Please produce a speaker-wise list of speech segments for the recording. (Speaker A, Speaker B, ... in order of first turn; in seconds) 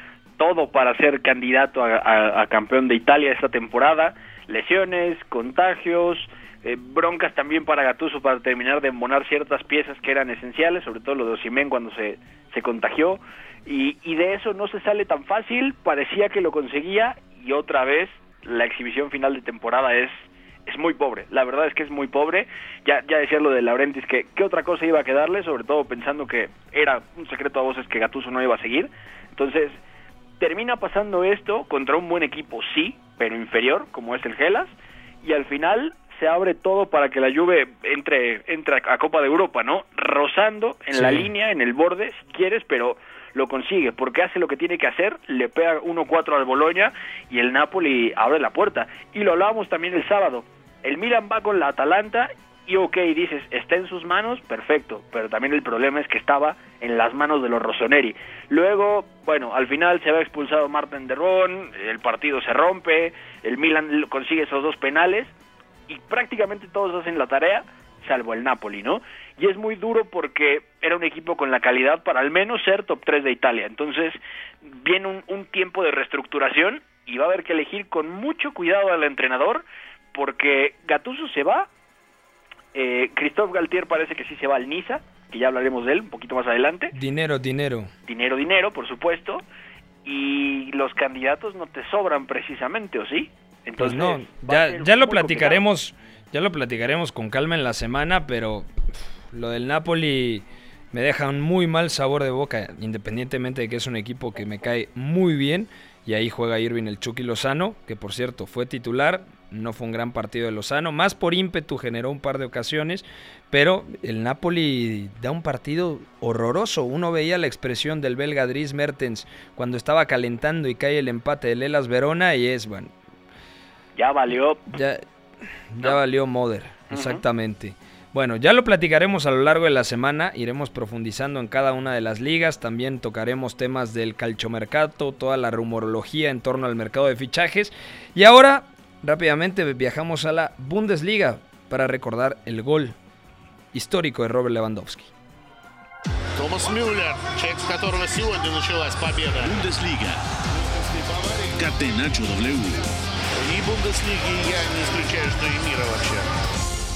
Speaker A: 0.4-29.8, 30.4-34.7, 35.2-65.3, 65.9-81.7, 82.7-86.9, 88.1-89.4, 90.0-95.6, 124.0-124.6, 126.9-127.2
Speaker B: 40.9-41.3, 86.9-87.9, 93.8-98.7, 99.3-122.9, 124.7-125.0, 125.7-142.9, 143.7-145.1
Speaker C: 146.3-149.6, 150.7-151.5, 153.4-156.3
Speaker D: 149.4-150.2, 151.6-152.9